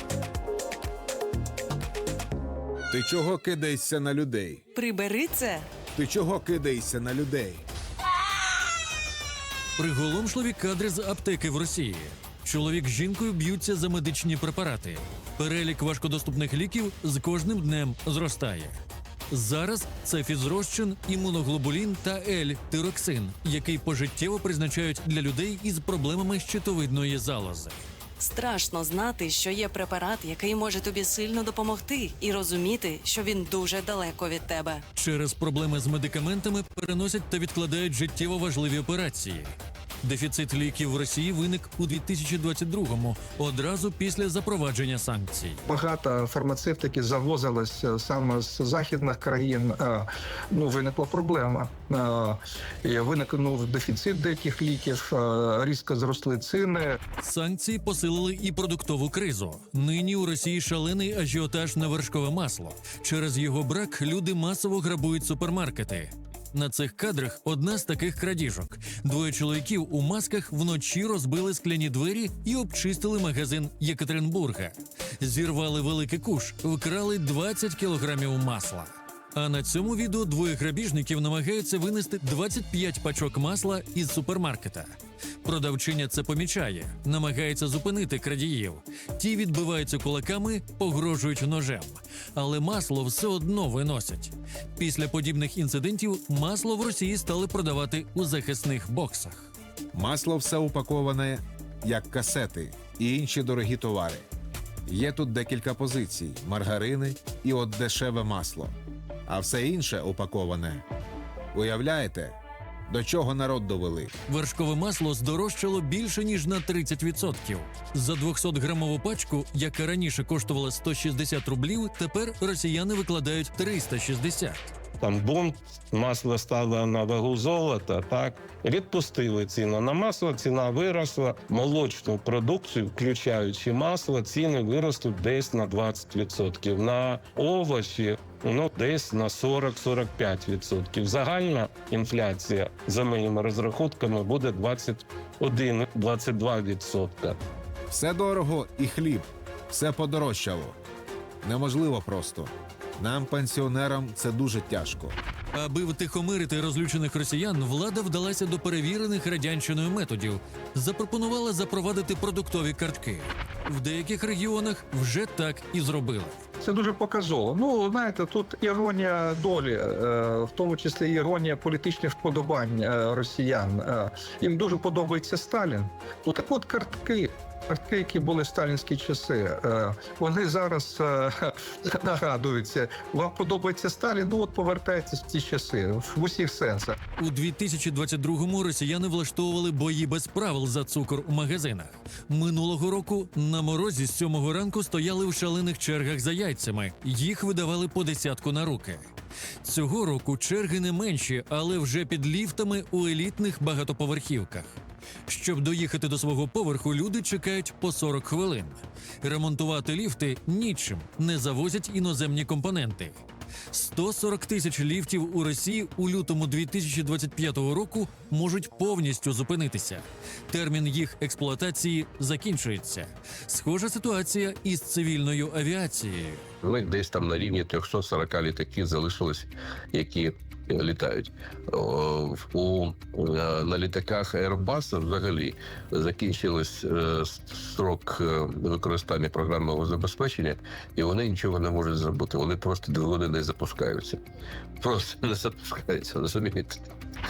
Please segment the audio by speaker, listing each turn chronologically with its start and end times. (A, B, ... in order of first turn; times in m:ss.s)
0:02.9-0:04.6 A
0:04.8-0:05.6 B
0:05.9-0:07.6 A
0:09.8-0:18.7 C
0:19.3-0:27.8 C
0:28.2-0:34.8 B
0:34.9-0:45.6 C
0:45.7-0:57.0 D
0:57.2-1:24.9 C
1:25.4-1:39.5 C
1:39.9-1:44.2 A
1:44.9-1:48.7 A
1:49.3-1:50.8 A
1:51.5-1:52.3 A
1:52.9-1:54.1 A
1:54.3-2:04.7 C
2:05.0-2:27.4 E
2:27.9-2:30.8 A
2:31.4-2:35.2 A
2:35.5-2:46.4 C
2:46.6-3:07.0 D
3:07.2-3:19.1 C
3:19.6-3:24.8 C
3:25.3-3:33.2 C
3:33.7-3:46.4 C
3:46.6-4:04.2 F
4:04.8-4:06.9 F